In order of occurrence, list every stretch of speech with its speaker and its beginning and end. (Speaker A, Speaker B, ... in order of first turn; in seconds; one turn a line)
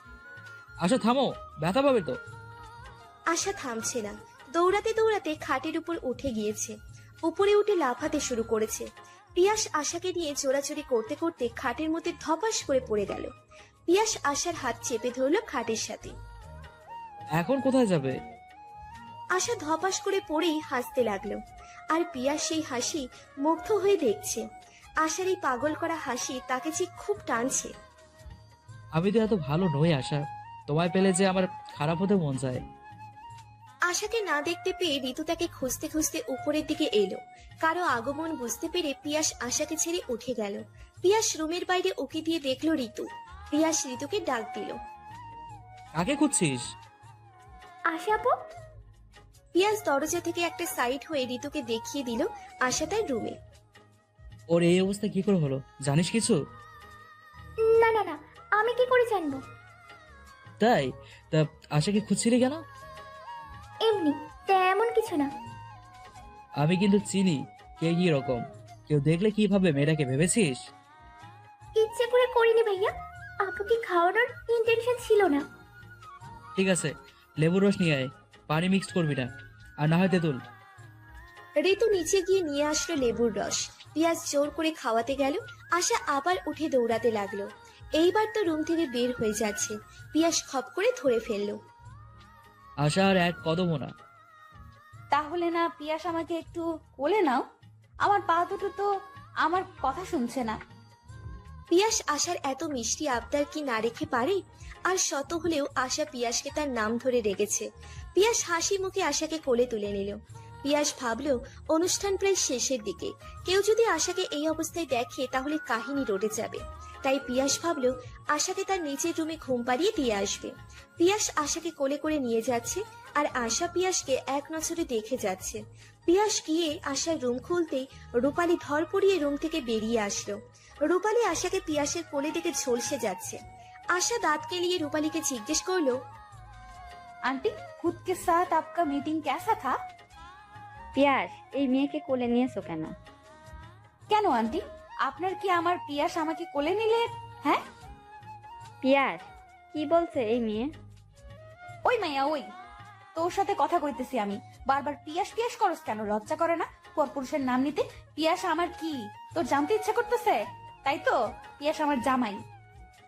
Speaker A: 0.8-2.2
Speaker B: 3.3-13.3
Speaker B: 13.9-16.1
Speaker A: 17.4-18.1
Speaker B: 19.3-21.4
Speaker B: 21.9-24.4
Speaker B: 25.0-27.7
Speaker A: 28.9-32.6
Speaker B: 33.9-44.8
Speaker A: 45.9-46.6
Speaker C: 47.9-48.5
Speaker B: 49.5-53.4
Speaker A: 54.5-56.4
Speaker C: 57.6-59.4
Speaker A: 60.6-62.6
Speaker C: 63.8-65.3
Speaker A: 66.6-70.6
Speaker C: 71.7-75.4
Speaker A: 76.5-79.3
Speaker A: 79.8-80.4
Speaker B: 81.6-91.6
Speaker A: 92.8-93.9
Speaker D: 95.1-97.4
Speaker D: 98.0-98.9
Speaker D: 99.4-100.6
Speaker B: 101.7-133.4
Speaker B: 133.9-136.0
Speaker D: 137.2-139.8
Speaker E: 140.9-142.9
Speaker D: 144.1-147.6
Speaker E: 148.8-150.7
Speaker D: 151.8-152.4
Speaker D: 153.1-162.4